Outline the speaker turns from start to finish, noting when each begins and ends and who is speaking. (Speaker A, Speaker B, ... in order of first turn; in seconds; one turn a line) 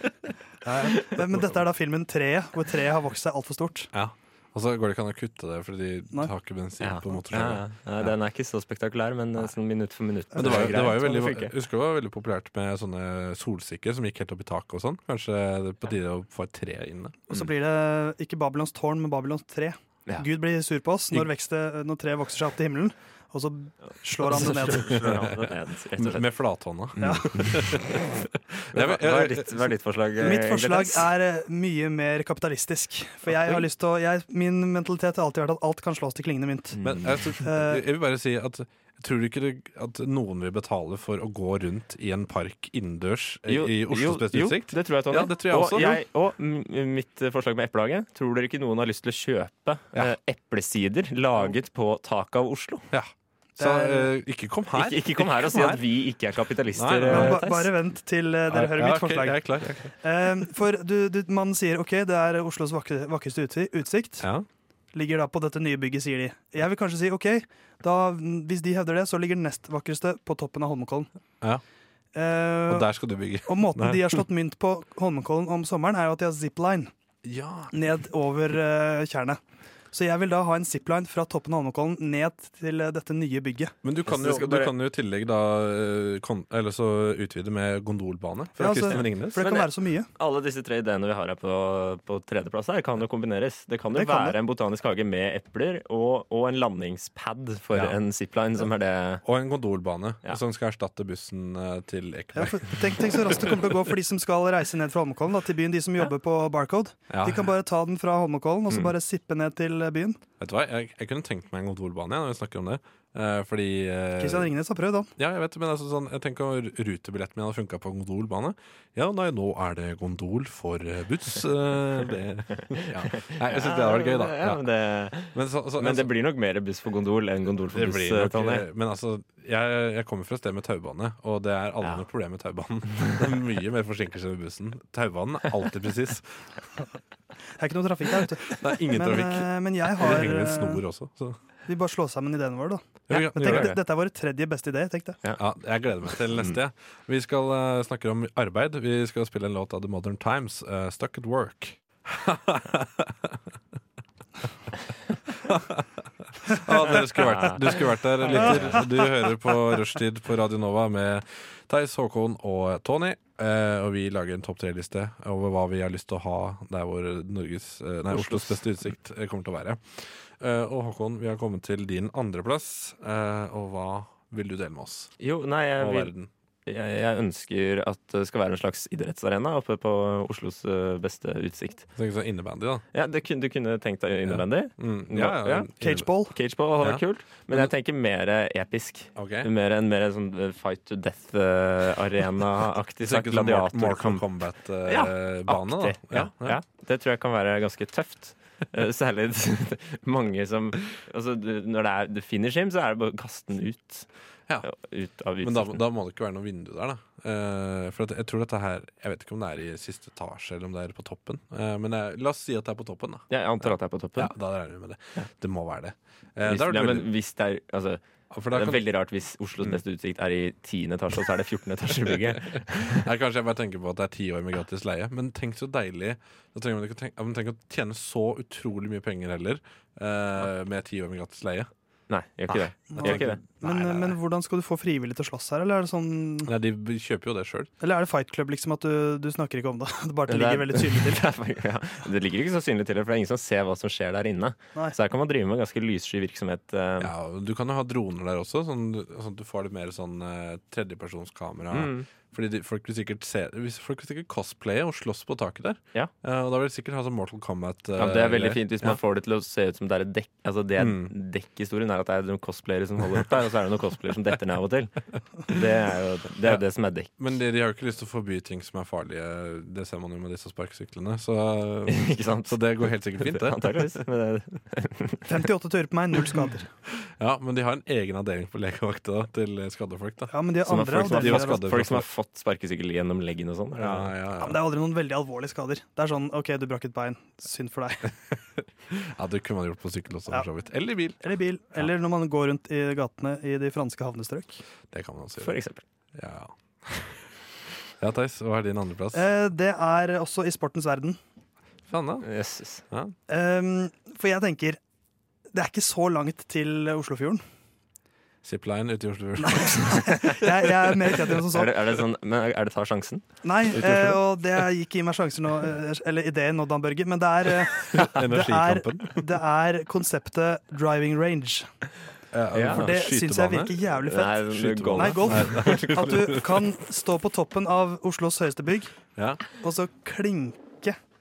Speaker A: 0.6-3.9
Speaker B: 3.9-8.1
Speaker C: 6.8-11.5
Speaker B: 10.3-17.2
Speaker A: 10.4-10.9
Speaker A: 17.3-25.1
Speaker C: 24.3-26.3
Speaker B: 24.6-29.7
Speaker C: 27.0-27.9
Speaker A: 27.0-27.3
Speaker C: 28.7-31.1
Speaker A: 30.2-36.8
Speaker C: 33.3-33.6
Speaker C: 36.8-37.1
Speaker B: 36.8-46.0
Speaker A: 37.4-37.8
Speaker C: 43.5-52.9
Speaker B: 52.9-55.8
Speaker A: 53.6-54.1
Speaker C: 54.7-57.7
Speaker B: 56.7-57.5
Speaker A: 57.1-64.3
Speaker B: 58.5-59.9
Speaker B: 64.2-64.5
Speaker A: 64.9-71.1
Speaker A: 72.1-72.9
Speaker B: 72.7-74.2
Speaker A: 73.5-76.9
Speaker B: 77.2-77.7
Speaker A: 77.7-79.4
Speaker A: 79.9-83.7
Speaker B: 83.8-89.4
Speaker C: 84.0-84.7
Speaker A: 88.6-90.1
Speaker C: 89.4-99.2
Speaker A: 93.9-94.4
Speaker B: 99.2-103.5
Speaker A: 102.4-110.2
Speaker B: 107.1-107.5
Speaker B: 110.4-114.5
Speaker A: 114.2-115.1
Speaker B: 115.2-124.6
Speaker C: 122.8-128.7
Speaker B: 125.3-126.1
Speaker B: 127.7-136.4
Speaker A: 137.6-140.8
Speaker B: 138.6-141.4
Speaker A: 141.7-145.2
Speaker B: 143.1-143.8
Speaker C: 143.1-143.7
Speaker B: 145.4-153.4
Speaker C: 146.3-146.6
Speaker B: 155.3-175.1
Speaker C: 157.2-157.8
Speaker C: 158.3-158.8
Speaker C: 168.1-168.6
Speaker C: 175.2-176.1
Speaker B: 175.8-176.3
Speaker C: 176.7-181.9
Speaker B: 181.9-182.8
Speaker C: 182.9-194.2
Speaker B: 184.3-186.1
Speaker A: 185.8-186.3
Speaker B: 186.8-187.7
Speaker B: 189.2-189.5
Speaker B: 193.0-196.6
Speaker C: 194.9-204.1
Speaker C: 204.6-205.8
Speaker B: 205.4-217.1
Speaker C: 213.3-214.3
Speaker C: 216.4-223.1
Speaker B: 218.3-218.8
Speaker B: 222.2-231.7
Speaker C: 232.1-233.4
Speaker B: 232.5-234.2
Speaker A: 232.9-236.5
Speaker B: 236.4-237.7
Speaker A: 237.8-241.2
Speaker C: 240.3-247.1
Speaker B: 247.0-259.0
Speaker C: 251.7-252.1
Speaker C: 258.0-267.1
Speaker B: 260.8-261.1
Speaker B: 267.2-273.9
Speaker C: 271.9-275.3
Speaker A: 275.3-276.7
Speaker B: 277.0-282.1
Speaker A: 280.3-281.6
Speaker C: 280.6-284.1
Speaker B: 283.8-284.6
Speaker A: 284.4-288.1
Speaker B: 288.3-291.2
Speaker A: 291.2-294.6
Speaker B: 294.9-295.6
Speaker C: 295.4-295.8
Speaker B: 296.1-297.3
Speaker B: 298.0-299.3
Speaker A: 299.1-301.2
Speaker B: 301.9-302.3
Speaker C: 302.2-302.8
Speaker B: 302.9-303.1
Speaker A: 303.3-304.8
Speaker A: 305.5-307.4
Speaker B: 308.4-310.7
Speaker A: 309.4-311.7
Speaker C: 311.5-313.2
Speaker A: 313.4-321.7
Speaker B: 313.8-314.1
Speaker B: 317.9-319.2
Speaker B: 322.3-323.7
Speaker C: 322.5-322.9
Speaker A: 322.7-328.9
Speaker C: 324.1-326.1
Speaker B: 324.5-326.6
Speaker B: 329.2-329.4
Speaker A: 329.5-331.0